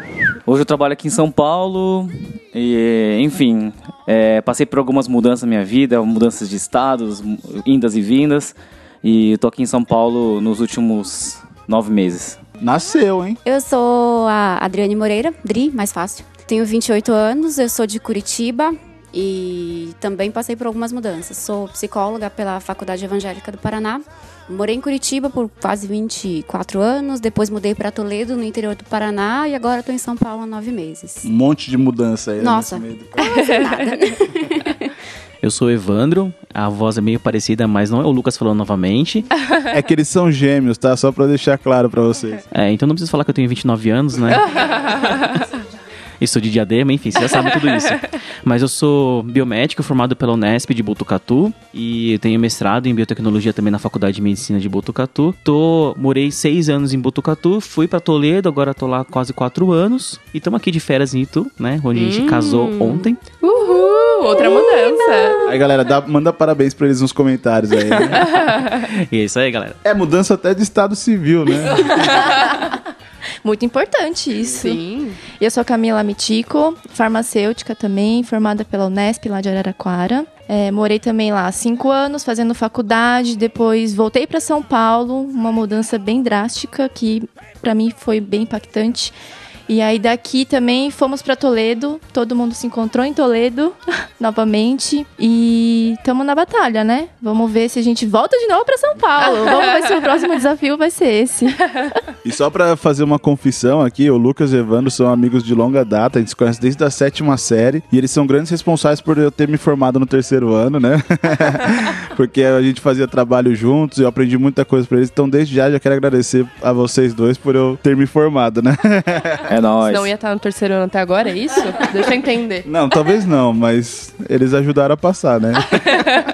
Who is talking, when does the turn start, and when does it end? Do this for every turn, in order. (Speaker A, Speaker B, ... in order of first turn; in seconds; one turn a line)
Speaker A: 0.5-12.4
Speaker B: 12.6-13.4
Speaker C: 13.4-31.3
Speaker B: 31.2-33.3
Speaker C: 32.4-34.9
Speaker D: 35.4-39.3
Speaker B: 39.7-42.4
Speaker D: 42.5-45.1
Speaker D: 46.2-63.2
Speaker E: 61.9-65.5
Speaker F: 63.6-65.3
Speaker B: 65.4-68.3
Speaker D: 68.1-69.8
Speaker B: 69.8-72.3
Speaker F: 72.2-72.7
Speaker F: 73.4-89.1
Speaker C: 74.6-75.2
Speaker F: 89.7-102.0
Speaker E: 99.2-100.0
Speaker B: 102.2-119.5
Speaker A: 119.5-120.1
Speaker E: 119.8-122.7
Speaker B: 122.6-126.0